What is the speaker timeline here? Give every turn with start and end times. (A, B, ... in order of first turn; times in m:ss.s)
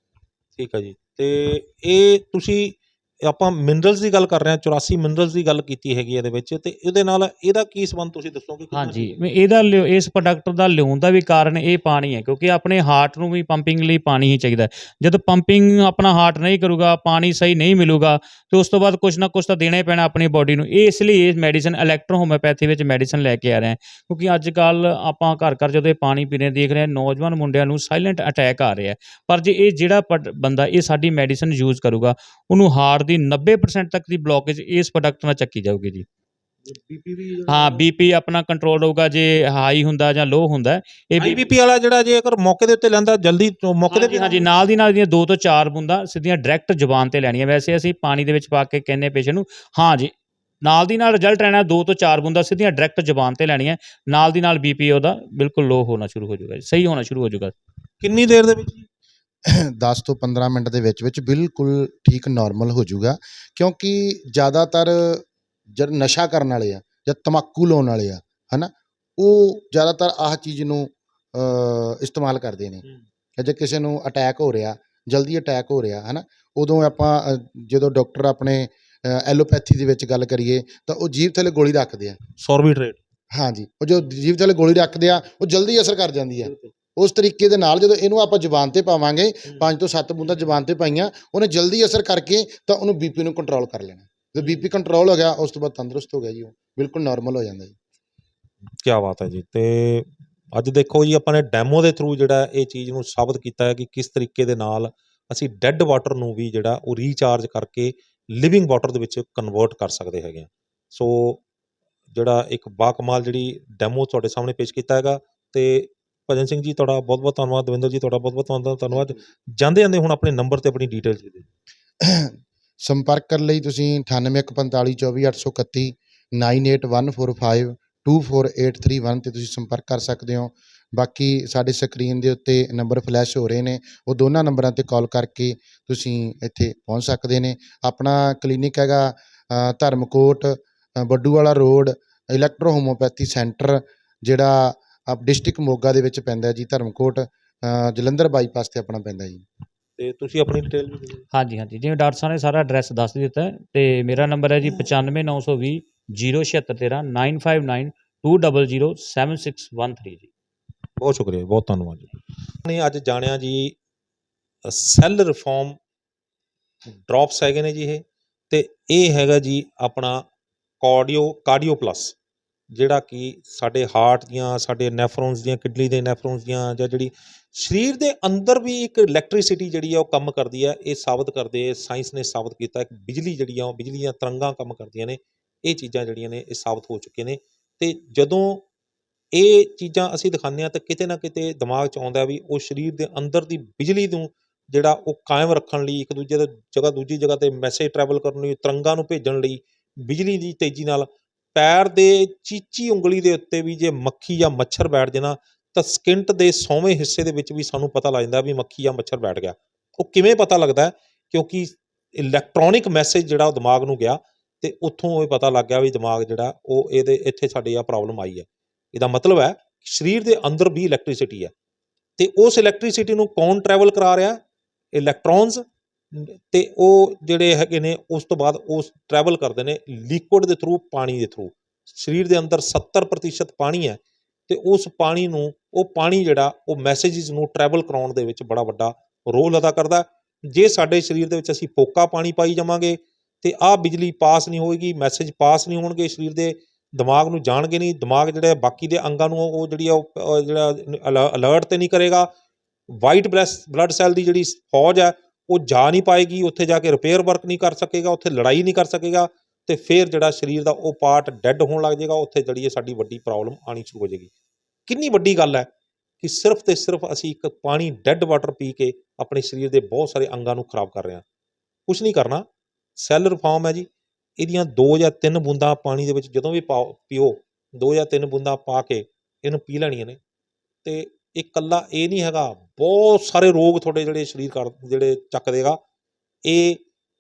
0:00.6-0:09.1 A
0:08.7-0:36.1 B
0:36.6-0:37.9 A
0:37.5-0:41.4 B
0:41.2-0:44.5 A
0:43.9-0:50.1 B
0:50.6-0:57.5 B
0:58.0-0:58.9 A
0:59.5-1:12.8 C
1:13.4-1:22.2 C
1:22.4-1:23.0 A
1:23.3-1:37.8 C
1:26.4-1:26.7 A
1:29.5-1:29.7 A
1:38.8-1:51.4 A
1:52.1-2:01.5 A
2:02.0-2:29.4 C
2:30.0-2:31.2 A
2:31.3-2:40.3 B
2:41.0-2:42.1 A
2:42.6-2:43.8 A
2:44.6-2:45.8 A
2:46.9-2:50.2 A
2:50.8-2:52.2 A
2:52.7-3:08.6 A
3:09.3-3:41.5 A
3:42.2-3:44.4 A
3:44.9-4:12.3 A
4:12.9-4:24.3 A
4:24.9-4:25.7 A
4:26.2-4:31.2 A
4:31.9-4:40.2 A
4:40.8-4:45.8 A
4:46.4-4:46.8 A